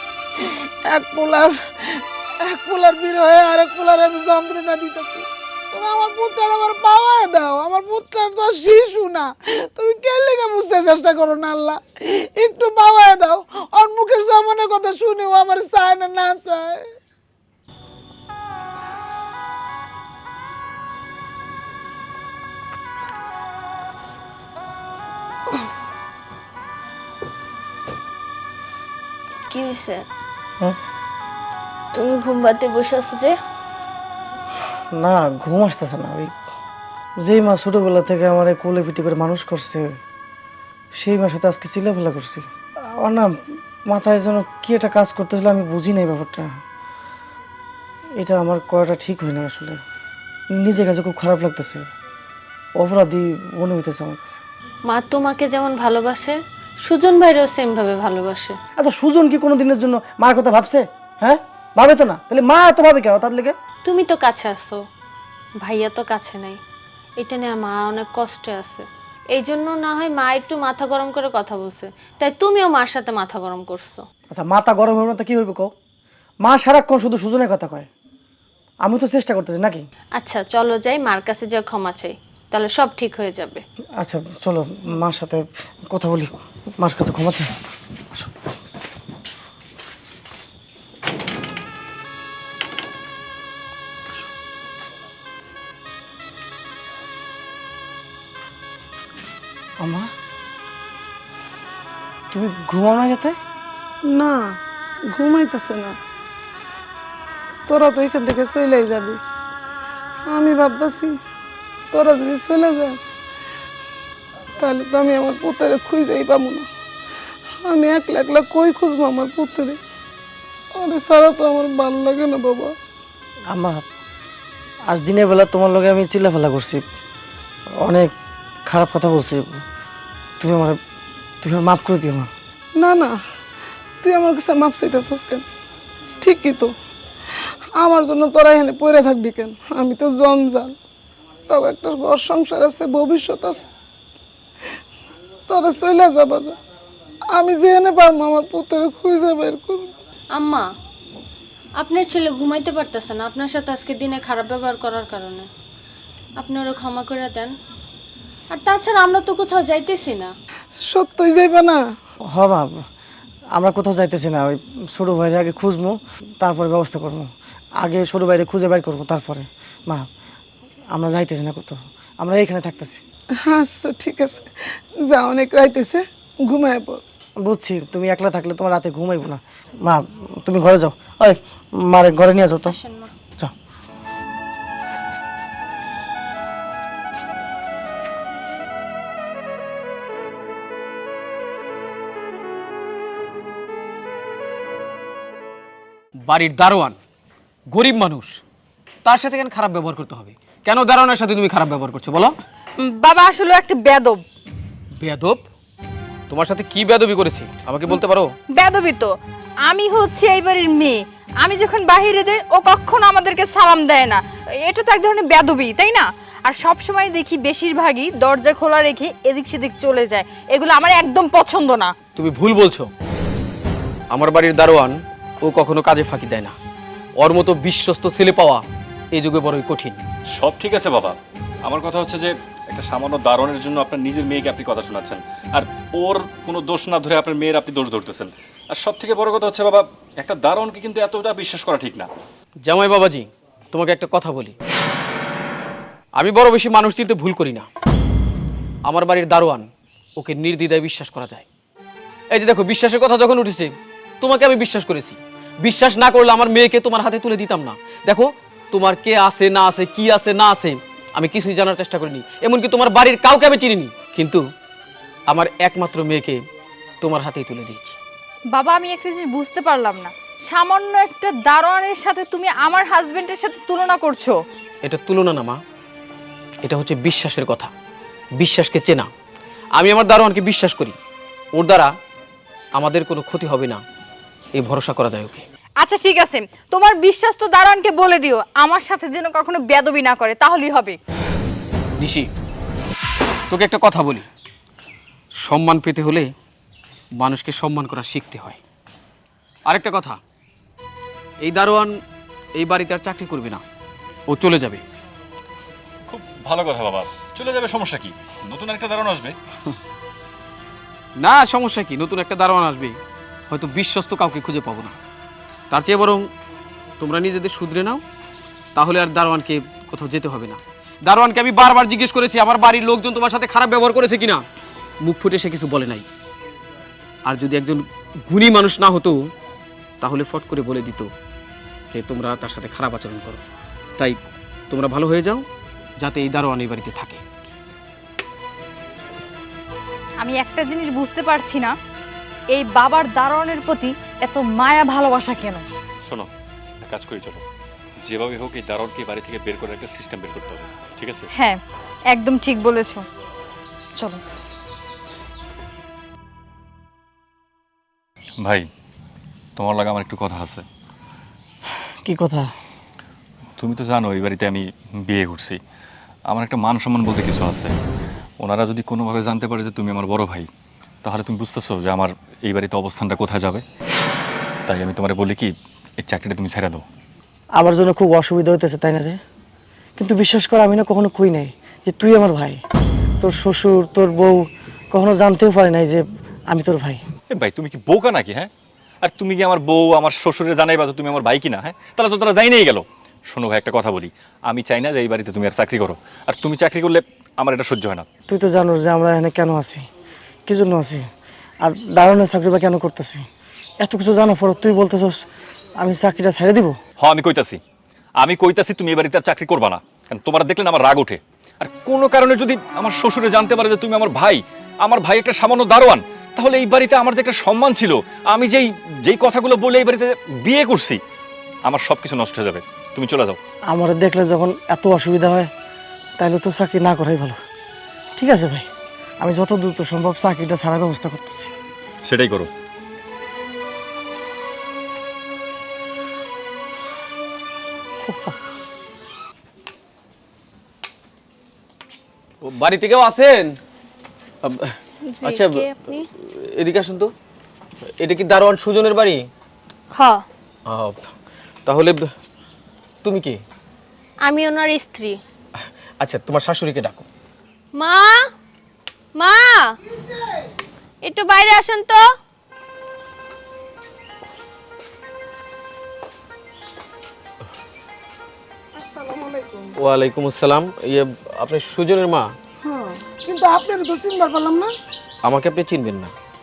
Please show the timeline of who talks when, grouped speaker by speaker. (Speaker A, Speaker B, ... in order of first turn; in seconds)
Speaker A: 0.4-16.9, 104.1-104.6, 105.1-106.0, 107.7-109.2, 110.3-111.2, 111.9-113.2, 114.6-116.7, 117.6-119.8, 120.7-122.8, 132.8-133.2, 134.0-135.5, 136.2-136.7, 137.8-140.8, 141.5-143.7, 145.5-146.6, 147.3-149.9, 160.8-161.8, 173.4-177.0, 459.9-460.4, 468.8-469.7, 472.6-474.7
Speaker B: 29.5-30.1, 31.9-33.4, 54.9-58.6, 63.9-64.8, 65.6-66.6, 67.2-74.1, 80.2-83.6, 150.3-150.7, 151.8-155.5, 156.4-157.5, 158.5-160.3, 182.7-183.1, 445.1-446.1, 449.9-450.2, 454.2-455.2, 457.8-458.2, 459.2-459.8, 461.0-462.1
Speaker C: 34.9-36.3, 37.2-40.0, 41.0-42.5, 43.0-46.6, 48.2-49.8, 50.5-51.9, 52.8-54.4, 58.8-63.6, 74.3-75.7, 76.4-77.9, 78.8-79.8, 84.0-87.5, 99.8-100.1, 102.3-103.4, 123.5-123.8, 124.9-126.8, 127.8-128.1, 128.7-129.6, 130.4-130.8, 131.4-132.3, 162.3-162.9, 163.5-170.1, 170.9-173.0, 177.4-182.8, 362.1-362.5, 377.6-379.2, 380.0-382.6, 383.2-387.0, 398.3-399.8, 400.5-401.1, 401.6-403.3, 403.8-405.2, 405.8-406.8, 423.7-425.5, 426.2-427.4, 428.2-428.7, 429.2-431.5, 438.0-438.4
Speaker D: 196.2-197.0, 197.7-198.4, 199.1-202.3, 205.0-205.4, 206.3-208.3, 222.2-222.9, 224.1-226.6, 227.2-230.0, 242.7-244.5, 246.2-247.7, 248.9-251.5, 252.3-264.4, 265.3-266.4, 267.0-268.0, 274.8-275.6, 276.6-277.7, 278.4-279.1, 279.8-281.0, 281.5-281.9, 282.8-283.8, 284.6-285.4, 292.0-292.3, 293.5-294.3, 295.4-296.3, 297.2-298.6, 299.7-300.2, 301.4-302.0, 302.6-303.6, 304.3-304.8, 311.2-313.0, 313.5-315.0, 315.7-316.3, 317.0-318.0, 318.8-324.4, 325.0-326.1, 327.2-329.3, 330.0-331.1, 331.9-333.4, 334.7-335.5, 336.0-337.2, 442.4-443.6, 444.4-447.1, 448.0-449.3, 450.7-451.1, 451.7-452.1, 453.0-453.4, 455.6-457.1, 469.8-472.3, 475.2-476.1
Speaker E: 202.8-204.2, 208.5-221.9, 268.5-274.4, 285.8-291.0, 340.2-341.8, 342.5-345.6, 351.4-353.1, 354.0-354.2
Speaker F: 230.3-242.1, 306.1-309.4, 346.8-347.4, 348.0-351.3, 358.4-358.7, 359.6-360.6, 363.6-365.6, 366.3-367.7, 368.4-370.5, 371.0-373.6, 374.7-376.9, 387.3-388.5, 389.0-398.1, 407.0-407.6, 408.2-421.0, 421.6-423.4, 432.1-432.5